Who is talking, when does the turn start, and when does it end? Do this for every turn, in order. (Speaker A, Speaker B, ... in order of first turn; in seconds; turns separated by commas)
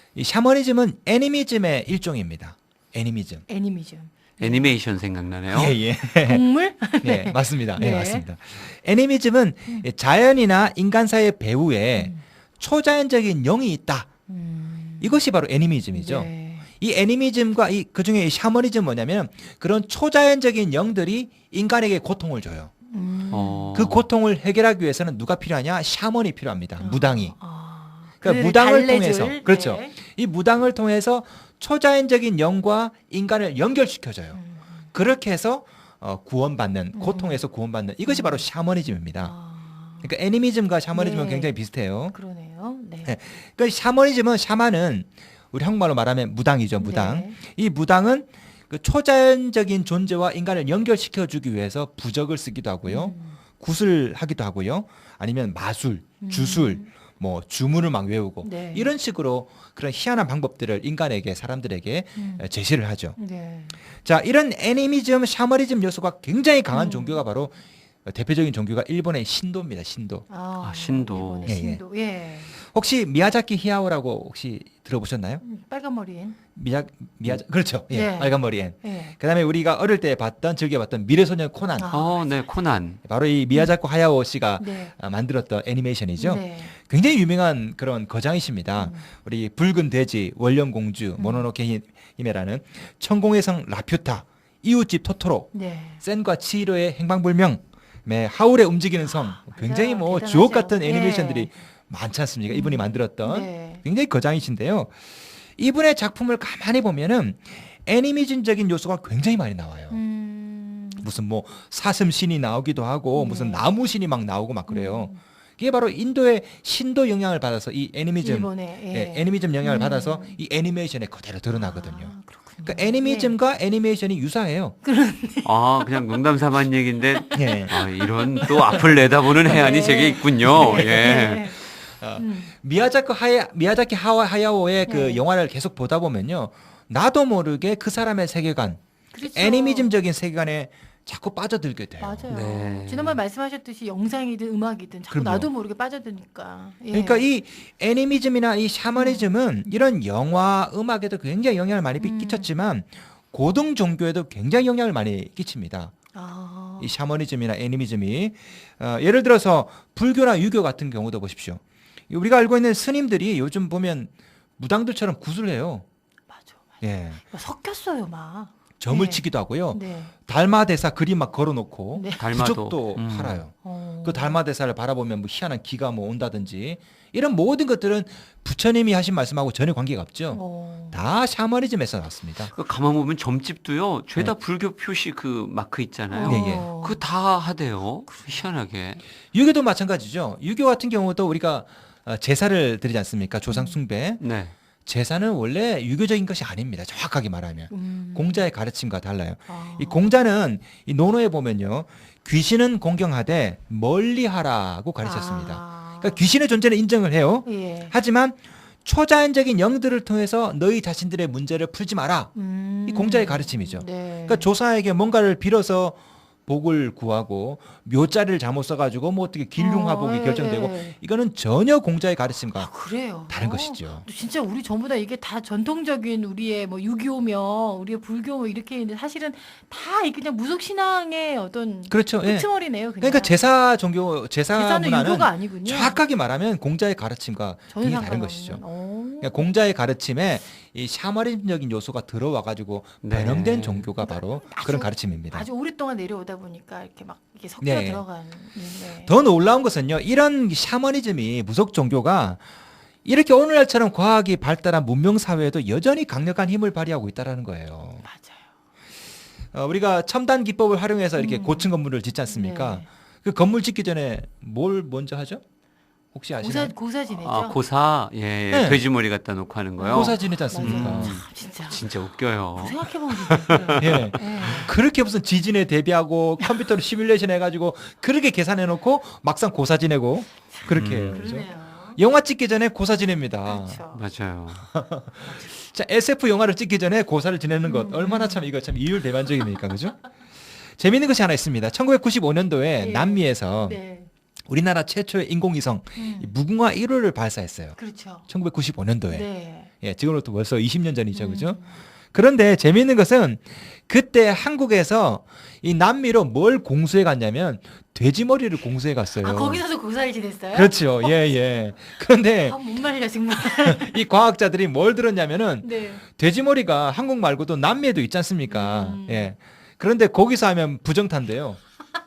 Speaker A: 0.1-3.5, Speaker B: 3.5-4.8, Speaker C: 4.4-5.8, Speaker A: 5.5-6.5, Speaker B: 6.2-8.3, Speaker A: 7.0-14.1, Speaker B: 12.0-12.2, Speaker B: 14.3-15.2, Speaker A: 15.0-22.7, Speaker B: 15.9-16.7, Speaker B: 22.9-23.7, Speaker C: 23.3-24.1, Speaker A: 23.7-27.4, Speaker B: 26.8-29.9, Speaker A: 28.2-34.4, Speaker B: 34.3-34.9, Speaker A: 34.9-39.3, Speaker B: 36.9-37.4, Speaker B: 38.0-38.5, Speaker B: 39.2-40.1, Speaker A: 40.0-42.2, Speaker B: 40.9-41.6, Speaker B: 42.1-43.2, Speaker A: 43.0-63.2, Speaker B: 46.8-47.4, Speaker B: 52.9-53.4, Speaker B: 56.2-56.9, Speaker B: 58.4-58.9, Speaker B: 62.2-62.5, Speaker B: 63.2-63.8, Speaker A: 64.0-70.3, Speaker B: 66.7-67.2, Speaker B: 70.3-72.5, Speaker C: 70.6-71.6, Speaker A: 71.5-71.9, Speaker A: 72.6-75.4, Speaker B: 75.4-76.4, Speaker A: 76.5-81.9, Speaker B: 77.9-79.2, Speaker B: 81.8-82.5, Speaker C: 81.9-83.0, Speaker A: 83.0-105.0, Speaker B: 84.6-84.9, Speaker B: 86.2-86.8, Speaker B: 88.8-89.1, Speaker B: 91.2-91.5, Speaker B: 95.5-96.0, Speaker B: 99.0-101.6, Speaker B: 102.5-103.8, Speaker A: 105.6-110.0, Speaker B: 109.9-111.1, Speaker A: 111.0-124.8, Speaker B: 113.1-113.7, Speaker B: 114.7-115.2, Speaker B: 118.2-120.4, Speaker B: 121.5-123.4, Speaker B: 124.8-126.2, Speaker C: 125.4-131.5, Speaker B: 127.2-128.9, Speaker A: 127.3-127.8, Speaker B: 129.4-132.5, Speaker A: 130.5-142.3, Speaker B: 134.9-135.2, Speaker B: 139.1-140.0, Speaker B: 142.0-147.3, Speaker C: 142.3-143.2, Speaker A: 145.1-145.5, Speaker A: 146.9-155.9, Speaker B: 148.9-149.3, Speaker B: 152.0-152.5, Speaker B: 156.1-156.9, Speaker A: 156.8-165.8, Speaker B: 166.3-170.1, Speaker A: 166.8-167.2, Speaker A: 168.8-182.5, Speaker B: 171.9-172.3, Speaker C: 172.2-173.4, Speaker B: 173.6-174.4, Speaker B: 180.3-181.0, Speaker C: 182.5-189.0, Speaker B: 186.1-187.0, Speaker A: 186.2-186.7, Speaker B: 188.1-188.5, Speaker A: 189.3-194.2, Speaker B: 193.5-193.8, Speaker C: 194.2-194.5, Speaker A: 194.9-212.3, Speaker B: 197.7-198.4, Speaker B: 199.5-200.1, Speaker B: 205.0-206.2, Speaker B: 207.5-207.9, Speaker B: 212.3-214.5, Speaker A: 212.9-224.1, Speaker B: 219.6-221.0, Speaker B: 222.6-233.4, Speaker A: 231.9-238.6, Speaker B: 234.5-236.0, Speaker B: 237.7-239.5, Speaker A: 239.2-245.5, Speaker C: 243.0-243.9, Speaker B: 244.0-249.1, Speaker A: 247.6-248.1, Speaker A: 249.0-252.4, Speaker A: 253.1-258.0, Speaker B: 258.0-258.4, Speaker A: 259.5-265.4, Speaker B: 261.1-261.8, Speaker B: 262.3-262.9, Speaker A: 266.1-266.7, Speaker B: 266.4-267.6, Speaker C: 267.1-274.1, Speaker A: 268.5-268.8, Speaker B: 269.8-271.9, Speaker A: 269.9-271.2, Speaker B: 272.4-274.8, Speaker A: 273.8-283.8, Speaker B: 280.5-282.0, Speaker C: 280.7-281.2, Speaker B: 283.5-284.0, Speaker C: 283.9-284.7, Speaker A: 284.7-290.1, Speaker B: 287.6-288.5, Speaker A: 290.8-293.8, Speaker B: 292.8-294.1, Speaker A: 294.5-309.6, Speaker B: 296.0-296.4, Speaker B: 297.8-298.3, Speaker B: 299.1-299.7, Speaker B: 301.1-301.8, Speaker B: 309.2-311.2, Speaker A: 310.5-312.6, Speaker B: 312.4-314.0, Speaker A: 313.4-321.6, Speaker B: 315.6-316.0, Speaker B: 318.5-319.3